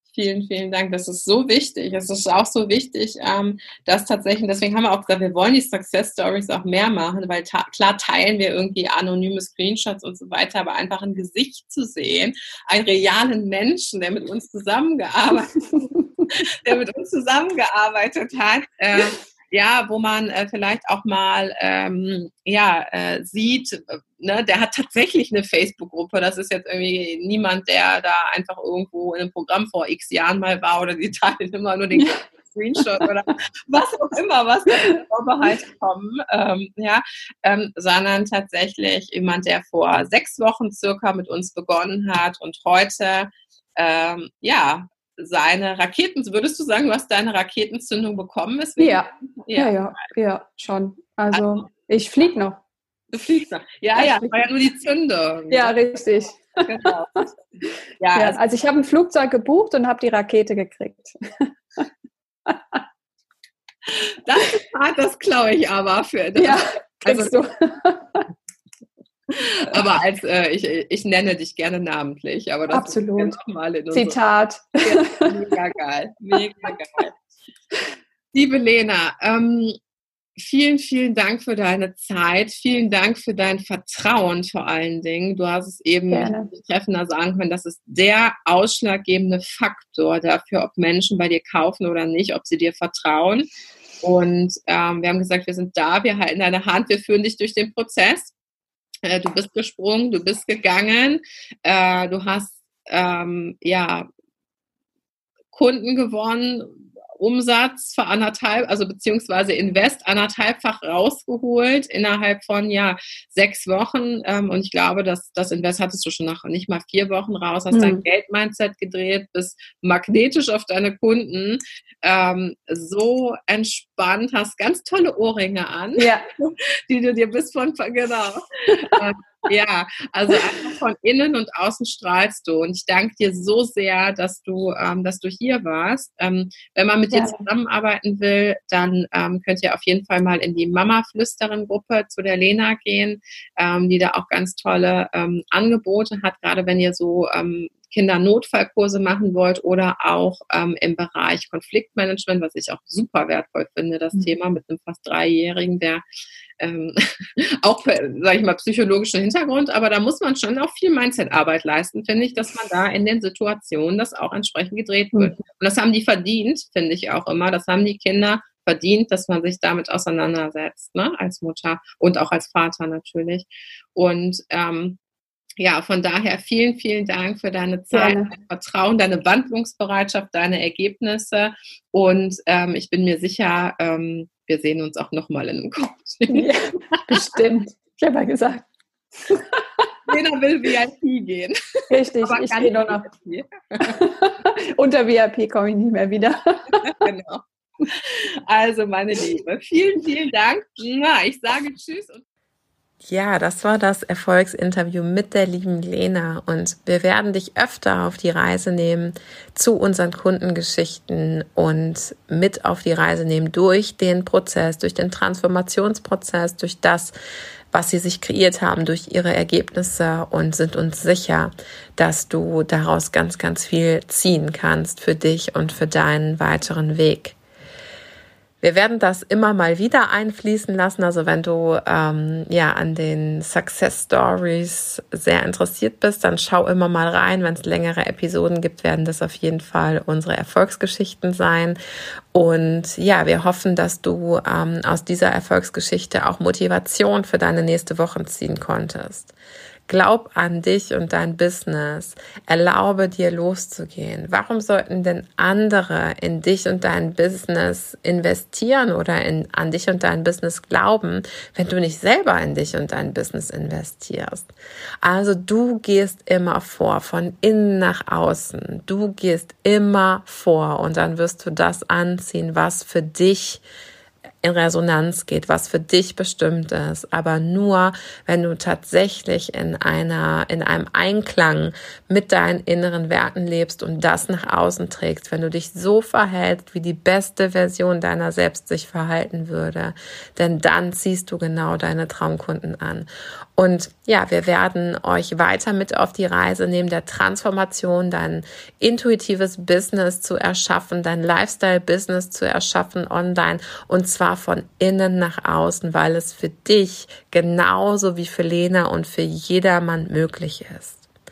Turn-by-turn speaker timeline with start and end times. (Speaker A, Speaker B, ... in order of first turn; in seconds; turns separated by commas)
Speaker A: 0.1-49.8, Speaker B: 48.8-52.6, Speaker A: 53.1-55.7, Speaker B: 54.0-54.5, Speaker B: 55.5-56.9, Speaker A: 56.7-57.4, Speaker A: 58.0-58.4, Speaker B: 58.1-61.9, Speaker B: 62.5-62.8, Speaker A: 63.9-67.4, Speaker B: 66.4-68.3, Speaker A: 69.4-74.2, Speaker B: 72.7-73.4, Speaker B: 73.9-75.3, Speaker A: 74.8-77.1, Speaker B: 76.3-76.7, Speaker A: 78.3-79.8, Speaker A: 80.4-93.5, Speaker B: 86.1-86.5, Speaker A: 94.0-98.3, Speaker A: 99.0-104.1, Speaker A: 105.5-156.0, Speaker B: 117.7-118.0, Speaker B: 126.0-126.2, Speaker B: 137.1-137.4, Speaker A: 156.6-175.0, Speaker A: 175.6-187.0, Speaker B: 177.9-178.3, Speaker B: 186.3-188.7, Speaker B: 189.3-189.9, Speaker A: 190.1-191.6, Speaker B: 191.9-193.1, Speaker A: 192.2-194.0, Speaker B: 193.8-196.9, Speaker A: 196.8-202.2, Speaker C: 203.1-217.2, Speaker C: 217.7-227.4, Speaker C: 228.6-241.8, Speaker C: 242.3-249.3, Speaker C: 249.9-264.5, Speaker C: 265.0-273.6, Speaker C: 274.4-311.1